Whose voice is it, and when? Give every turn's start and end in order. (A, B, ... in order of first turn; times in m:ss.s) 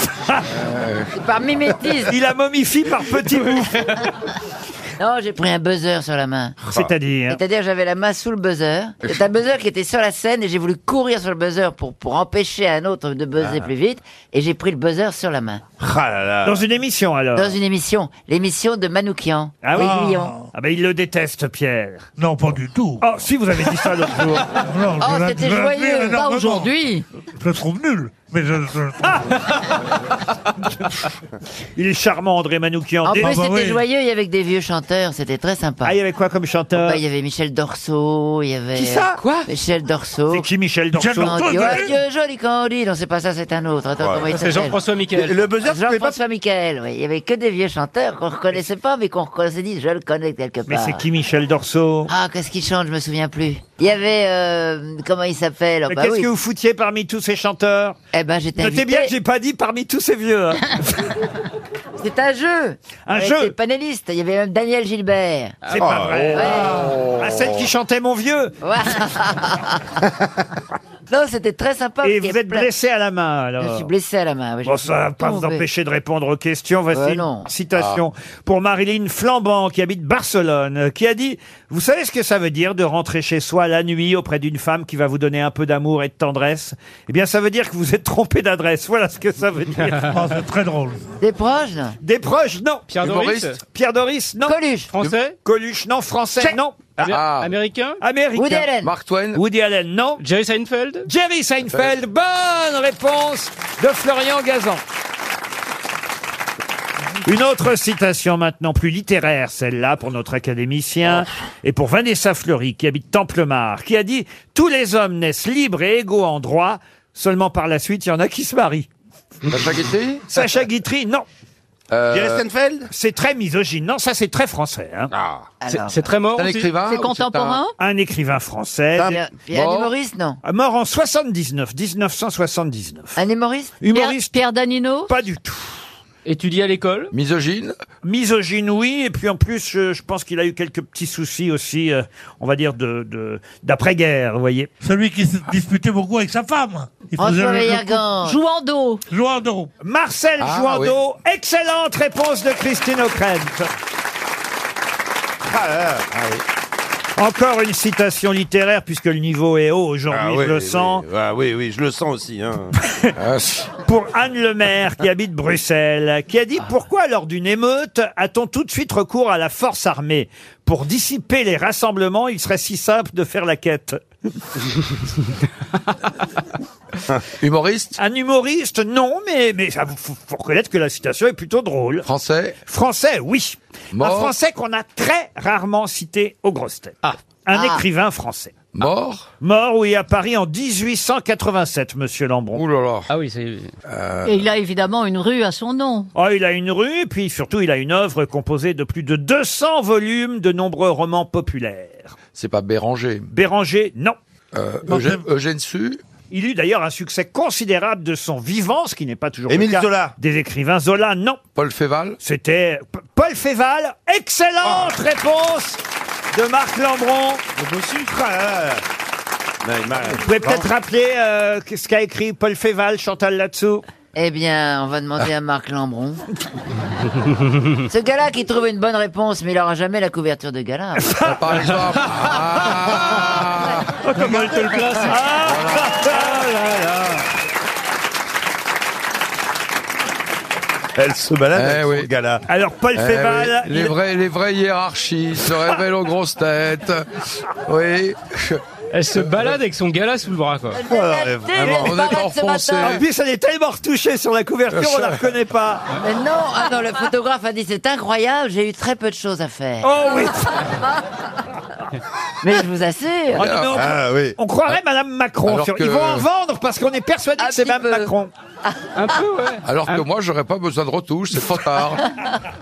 0:00.5-0:01.1 A
0:01.1-0:02.1 B
0:02.1-0:03.8 C
0:05.0-0:15.6 B
0:06.7-0:07.4 C
0:16.4-0:17.5 C
0:17.3-0:20.3 B
0:19.6-0:22.1 C
0:19.8-0:20.4 D
0:22.2-0:23.0 D
0:23.0-0:24.5 C
0:24.6-0:26.7 D
0:25.0-0:26.2 B
0:26.1-0:27.0 E
0:27.4-0:29.0 D
0:31.8-0:33.4 C
0:33.0-0:35.9 B
0:33.2-0:33.8 D
0:35.8-0:37.0 C
0:36.7-0:40.4 B
0:40.3-0:41.8 C
0:40.9-0:41.9 D
0:41.2-0:44.8 B
0:44.3-0:45.5 F
0:45.6-0:51.0 B
0:50.7-0:52.1 C
0:52.1-0:56.3 B
0:55.9-0:58.0 C
0:58.1-0:59.1 B
0:58.6-1:00.7 C
1:02.0-1:05.7 B
1:03.0-1:03.5 C
1:05.7-1:08.6 C
1:06.3-1:07.0 B
1:08.6-1:09.8 B
1:11.1-1:12.7 B
1:12.0-1:13.9 C
1:13.6-1:15.6 B
1:14.6-1:30.1 C
1:16.9-1:17.5 B
1:17.8-1:18.0 A
1:30.1-1:31.0 D
1:31.2-1:32.0 B
1:32.0-1:32.9 C
1:32.9-1:33.6 F
1:33.0-1:33.6 A
1:33.7-1:34.6 C
1:34.4-1:35.0 B
1:34.9-1:35.3 F
1:35.4-1:36.8 C
1:37.0-1:37.6 A
1:37.0-1:38.0 F
1:38.0-1:38.7 C
1:38.3-1:38.9 B
1:38.8-1:39.4 A
1:39.3-1:40.2 C
1:40.2-1:41.1 F
1:41.0-1:44.8 C
1:47.2-1:58.9 C
1:59.5-2:00.2 A
2:00.3-2:01.2 C
2:01.9-2:02.5 A
2:02.9-2:05.1 C
2:05.6-2:06.1 B
2:05.7-2:06.7 F
2:06.2-2:07.6 A
2:06.8-2:07.7 E
2:07.8-2:09.2 C
2:09.0-2:10.4 B
2:09.5-2:09.9 A
2:10.4-2:13.2 C
2:13.2-2:13.8 B
2:13.8-2:14.4 C
2:13.9-2:15.1 E
2:15.1-2:15.8 C
2:16.2-2:17.1 F
2:17.1-2:17.8 A
2:18.0-2:24.7 C
2:24.8-2:28.0 D
2:27.2-2:28.4 B
2:28.2-2:29.0 E
2:29.1-2:29.7 D
2:29.8-2:33.7 C
2:30.4-2:31.0 A
2:35.5-2:36.4 G
2:37.2-2:41.0 C
2:43.2-2:43.6 A
2:43.8-2:54.0 C
2:57.2-2:57.9 A
2:58.0-3:02.0 C
3:02.0-3:02.6 A
3:02.6-3:08.6 C
3:03.9-3:04.3 A
3:07.5-3:07.8 B
3:08.7-3:09.2 A
3:09.4-3:12.6 C
3:12.5-3:13.1 A
3:13.2-3:13.7 F
3:13.8-3:14.5 A
3:14.2-3:16.1 E
3:16.1-3:22.1 C
3:22.3-3:23.3 A
3:23.3-3:24.2 C
3:24.5-3:26.0 A
3:26.3-3:31.4 C
3:29.5-3:30.1 G
3:31.5-3:32.2 A
3:32.2-3:35.8 C
3:36.3-3:37.4 C
3:40.2-3:43.8 C
3:44.1-3:46.2 B
3:47.9-3:51.1 B
3:51.0-3:51.3 C
3:51.2-3:53.9 A
3:54.2-3:56.9 C
3:54.2-3:55.1 F
3:55.4-3:55.9 A
4:01.0-4:02.4 G
4:01.5-4:02.1 A
4:02.4-4:03.9 C
4:02.9-4:07.1 A
4:07.7-4:08.6 A
4:08.9-4:10.8 F
4:10.7-4:13.0 B
4:10.8-4:11.8 G
4:11.5-4:13.0 A
4:12.8-4:15.9 C
4:14.8-4:15.1 A
4:16.0-4:19.9 B
4:19.8-4:20.6 C
4:22.4-4:23.5 B
4:23.4-4:24.0 A
4:23.4-4:28.3 C
4:23.8-4:24.3 G
4:25.4-4:26.2 A
4:27.4-4:28.0 B
4:29.0-4:30.0 F
4:29.6-4:32.0 A